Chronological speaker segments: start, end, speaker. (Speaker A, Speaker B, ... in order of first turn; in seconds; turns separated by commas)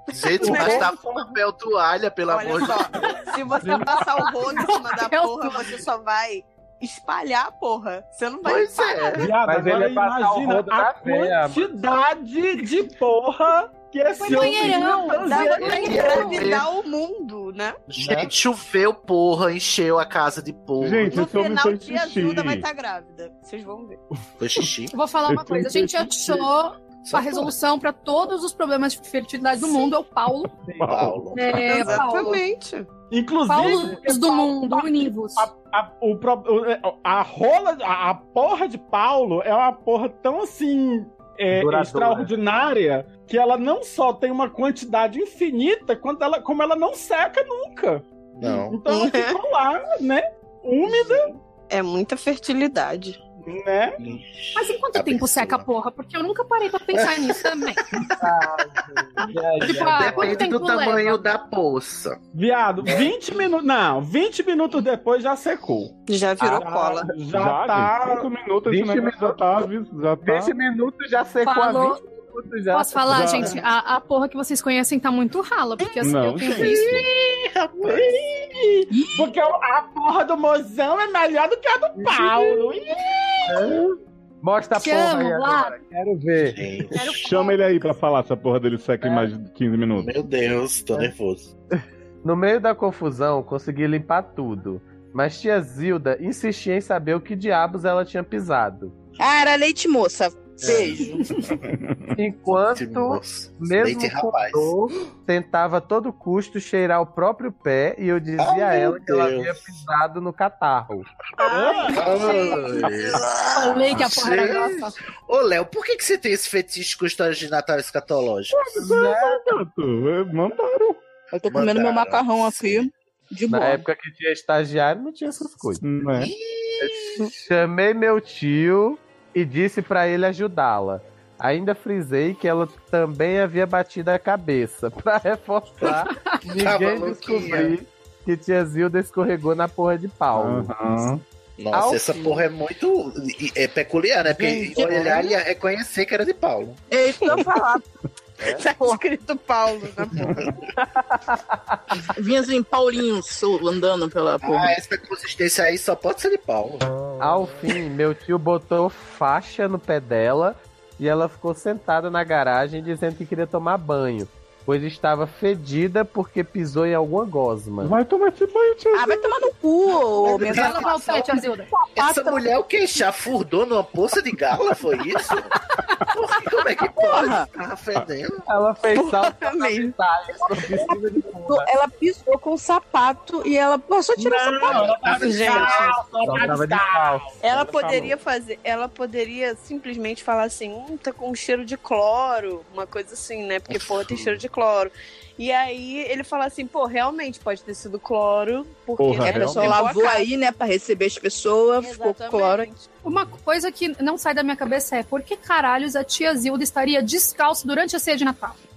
Speaker A: 0.1-2.9, Speaker B: 0.4-1.4, Speaker C: 0.4-1.0, Speaker C: 2.3-9.3, Speaker D: 3.6-5.7, Speaker A: 8.4-9.3, Speaker B: 9.1-16.4, Speaker E: 9.4-11.8, Speaker D: 14.2-16.5, Speaker C: 14.4-17.8, Speaker A: 15.7-16.7, Speaker A: 17.9-21.3, Speaker E: 18.0-18.3, Speaker F: 20.8-22.6, Speaker C: 21.1-24.0, Speaker A: 24.4-24.9, Speaker D: 24.9-30.5, Speaker F: 25.3-26.4, Speaker A: 27.0-27.5, Speaker F: 30.7-31.2, Speaker A: 30.9-31.5, Speaker D: 31.3-32.4, Speaker C: 31.6-32.9, Speaker B: 33.1-51.3, Speaker D: 33.5-35.5, Speaker E: 41.5-42.3, Speaker A: 48.4-48.8, Speaker C: 48.9-49.4, Speaker C: 50.9-53.2, Speaker B: 53.5-54.0, Speaker A: 54.0-55.7, Speaker D: 54.5-57.9, Speaker A: 56.9-58.7, Speaker E: 58.2-60.5, Speaker A: 59.2-62.2, Speaker D: 59.6-61.2, Speaker B: 62.3-68.3, Speaker A: 62.9-63.1, Speaker C: 66.1-67.1, Speaker F: 67.3-70.6, Speaker E: 68.7-69.5, Speaker E: 70.2-73.4, Speaker D: 71.4-72.0, Speaker D: 72.7-77.0, Speaker F: 73.1-73.6, Speaker F: 76.0-77.0, Speaker A: 76.5-78.2, Speaker B: 77.9-83.7, Speaker G: 78.9-79.2, Speaker E: 82.0-82.7, Speaker E: 83.5-86.6, Speaker D: 84.8-85.8, Speaker A: 86.4-87.2, Speaker D: 87.0-87.8, Speaker F: 87.2-90.1, Speaker E: 89.0-89.3, Speaker A: 90.0-91.5, Speaker E: 92.2-98.9, Speaker G: 99.2-101.2, Speaker E: 100.6-100.9, Speaker A: 100.7-101.2, Speaker F: 101.7-102.1, Speaker E: 102.2-111.1, Speaker A: 102.5-104.7, Speaker A: 108.4-109.5, Speaker C: 111.4-113.3, Speaker B: 111.4-112.1, Speaker A: 111.9-118.8, Speaker D: 113.5-115.0, Speaker F: 118.5-121.0, Speaker E: 118.8-119.6, Speaker G: 121.3-123.9, Speaker A: 121.5-122.9, Speaker E: 123.5-125.8, Speaker F: 125.8-126.3, Speaker A: 126.1-127.3, Speaker E: 126.8-140.7, Speaker A: 136.5-137.8, Speaker F: 140.3-141.2, Speaker A: 141.6-146.8, Speaker E: 141.7-142.4, Speaker E: 144.3-145.2, Speaker G: 144.8-145.3, Speaker G: 146.9-147.9, Speaker C: 147.3-147.5, Speaker C: 148.4-150.5, Speaker G: 148.8-149.0, Speaker F: 150.2-150.5, Speaker E: 150.8-152.0, Speaker G: 152.1-154.8, Speaker A: 154.4-156.9, Speaker E: 157.2-167.9, Speaker F: 167.8-169.4, Speaker G: 168.9-171.2, Speaker A: 170.2-171.3, Speaker D: 170.3-171.7, Speaker A: 171.9-175.5, Speaker A: 176.1-178.5, Speaker G: 177.1-177.5, Speaker E: 178.5-181.7, Speaker C: 178.9-179.9, Speaker G: 180.8-185.0, Speaker B: 184.2-188.1, Speaker A: 184.7-185.9, Speaker C: 185.1-186.0, Speaker E: 186.2-188.2, Speaker C: 187.4-200.3, Speaker A: 193.7-194.4, Speaker F: 199.0-199.8, Speaker G: 199.2-202.7, Speaker C: 201.8-202.9, Speaker D: 203.0-208.6